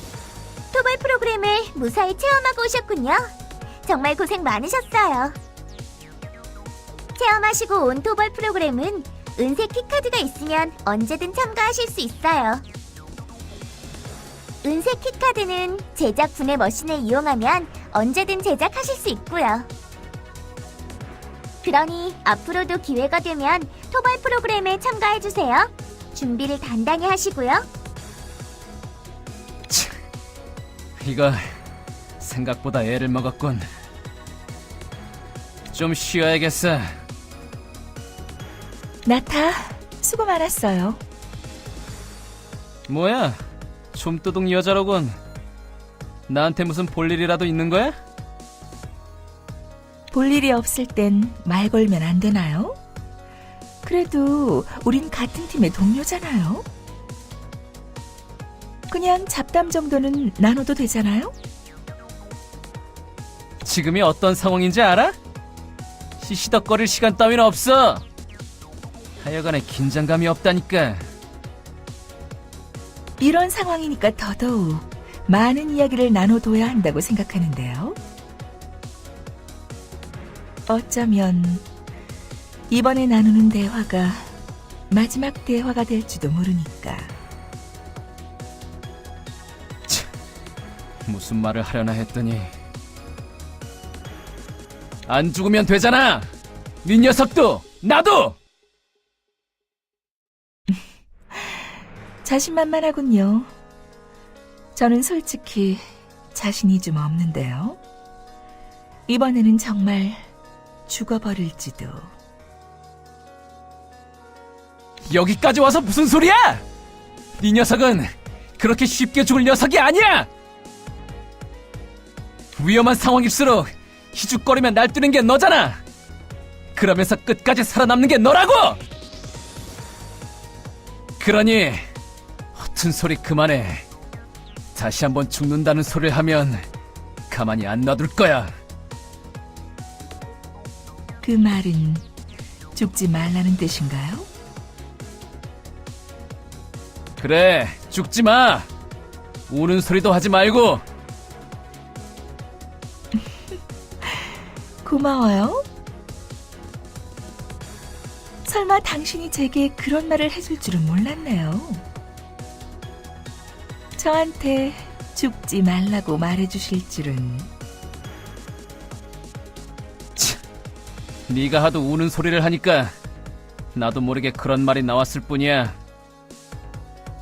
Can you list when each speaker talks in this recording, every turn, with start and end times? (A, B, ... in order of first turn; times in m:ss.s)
0:00.7-0:03.3 A
0:03.8-0:05.4 A
0:07.2-0:12.6 A
0:14.6-0:19.7 A
0:21.6-0:27.7 A
0:31.0-0:31.4 B
0:32.2-0:33.6 B
0:35.7-0:36.9 B
0:39.1-0:41.0 C
0:42.9-0:43.4 B
0:43.9-0:45.2 B
0:46.3-0:48.0 B
0:50.1-0:52.8 C
0:53.8-0:56.7 C
0:58.9-1:01.4 C
1:03.6-1:05.2 B
1:06.2-1:08.0 B
1:09.2-1:11.0 B
1:13.2-1:18.0 C
1:20.7-1:21.6 C
1:22.7-1:24.3 C
1:24.9-1:27.1 C
1:31.1-1:32.5 B
1:35.1-1:36.3 B
1:36.8-1:38.4 B
1:41.3-1:41.6 C
1:42.2-1:43.5 C
1:44.8-1:47.8 C
1:49.1-1:50.3 C
1:50.9-1:52.1 C
1:55.1-1:56.6 B
1:57.4-2:00.3 B
2:02.6-2:05.8 B
2:06.8-2:08.8 B
2:11.2-2:11.8 B
2:12.6-2:13.9 B
2:14.8-2:16.6 B
2:17.3-2:18.5 B
2:21.2-2:22.0 C
2:22.8-2:24.3 C
2:27.2-2:28.7 B
2:29.5-2:30.8 B
2:34.8-2:35.7 C
2:38.4-2:41.8 C
2:44.0-2:47.5 C
2:51.3-2:52.9 B
2:53.7-2:55.8 B